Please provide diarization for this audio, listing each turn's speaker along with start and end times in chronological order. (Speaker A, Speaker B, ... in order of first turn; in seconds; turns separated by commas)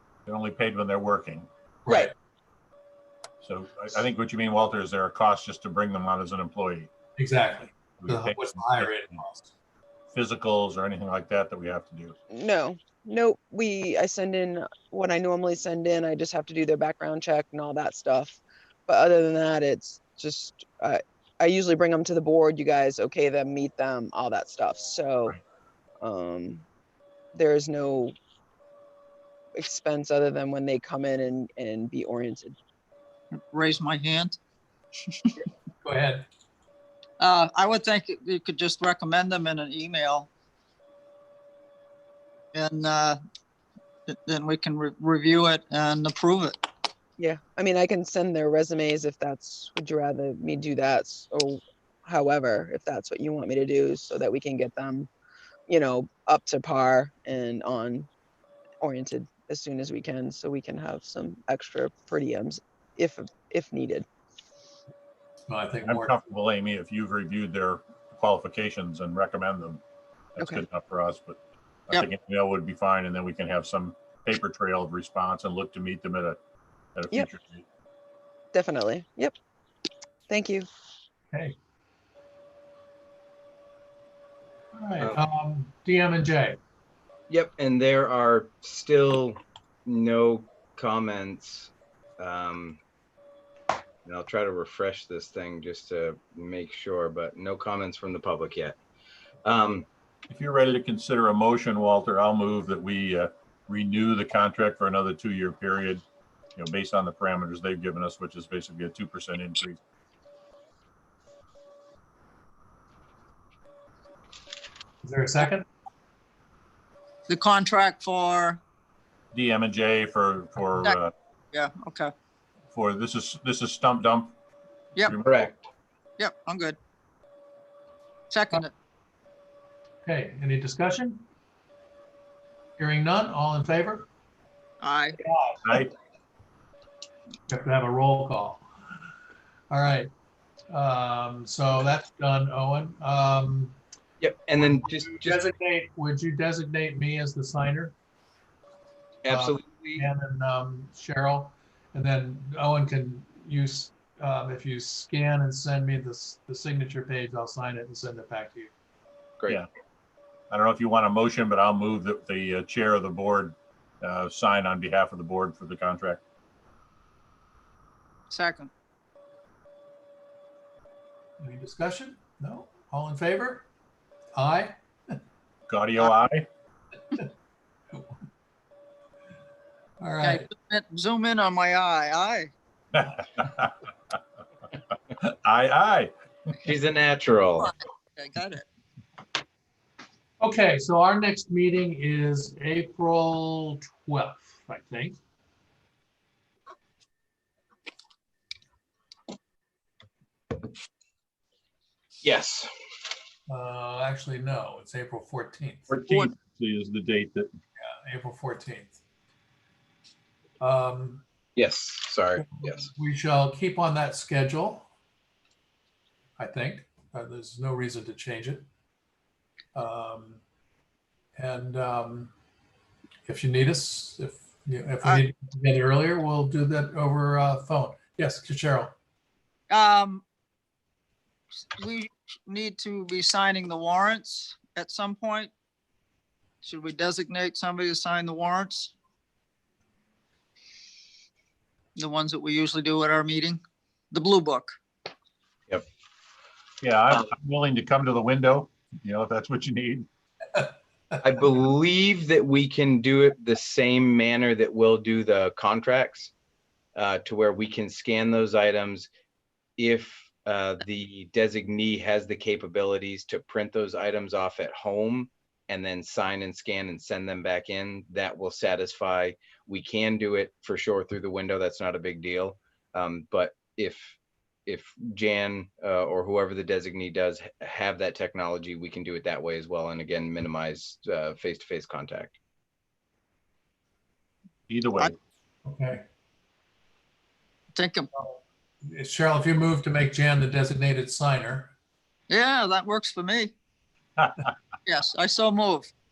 Speaker A: 0.3-1.5, Speaker B: 1.8-2.1, Speaker A: 3.4-6.9, Speaker B: 7.2-9.5, Speaker A: 8.0-9.2, Speaker A: 10.1-12.1, Speaker C: 12.3-25.4, Speaker C: 26.0-26.6, Speaker C: 27.3-28.1, Speaker C: 29.5-32.5, Speaker D: 33.5-34.4, Speaker B: 35.8-36.2, Speaker D: 37.2-40.3, Speaker D: 42.5-43.2, Speaker D: 44.1-46.6, Speaker C: 47.2-55.1, Speaker C: 55.7-58.1, Speaker C: 58.8-64.0, Speaker B: 65.5-66.1, Speaker A: 65.8-69.8, Speaker A: 70.3-76.4, Speaker A: 76.9-77.7, Speaker C: 78.5-79.3, Speaker C: 80.3-80.7, Speaker B: 81.3-81.6, Speaker B: 84.7-86.6, Speaker E: 87.3-92.8, Speaker E: 94.0-98.8, Speaker E: 99.4-99.9, Speaker A: 100.3-106.0, Speaker A: 106.5-109.8, Speaker B: 115.0-115.7, Speaker D: 117.3-118.6, Speaker A: 119.3-121.1, Speaker D: 121.5-122.1, Speaker A: 122.7-124.3, Speaker A: 125.0-125.5, Speaker E: 125.2-125.7, Speaker D: 126.2-126.8, Speaker D: 128.3-128.7, Speaker B: 130.0-131.2, Speaker B: 132.8-134.1, Speaker D: 134.8-135.2, Speaker B: 135.2-135.6, Speaker B: 137.5-138.6, Speaker B: 139.7-140.1, Speaker B: 140.7-143.8, Speaker E: 144.2-145.4, Speaker B: 145.2-147.9, Speaker E: 149.2-150.1, Speaker B: 149.3-158.7, Speaker A: 160.5-166.2, Speaker D: 168.3-168.7, Speaker B: 171.4-173.7, Speaker B: 174.3-175.2, Speaker A: 175.7-176.5, Speaker B: 180.0-180.5, Speaker D: 180.2-182.5, Speaker A: 182.9-183.7, Speaker A: 185.2-186.1, Speaker E: 186.6-187.7, Speaker D: 187.6-188.7, Speaker B: 190.4-195.2, Speaker E: 202.2-202.7, Speaker B: 203.5-205.9, Speaker A: 205.9-207.5, Speaker B: 207.8-209.0, Speaker B: 210.6-211.2, Speaker E: 211.6-212.9, Speaker B: 212.6-214.9, Speaker B: 216.4-218.7, Speaker B: 219.7-220.4, Speaker B: 221.3-222.3, Speaker B: 223.2-228.9, Speaker D: 229.7-230.2, Speaker D: 231.8-235.5, Speaker D: 236.6-238.9, Speaker D: 241.9-243.6, Speaker D: 244.1-244.7, Speaker A: 246.8-250.1, Speaker E: 251.2-256.3, Speaker E: 256.9-259.1, Speaker E: 259.8-282.4, Speaker A: 284.7-285.1, Speaker B: 285.6-286.0, Speaker D: 287.7-288.1, Speaker B: 288.1-291.7, Speaker D: 292.3-293.5, Speaker D: 294.9-295.9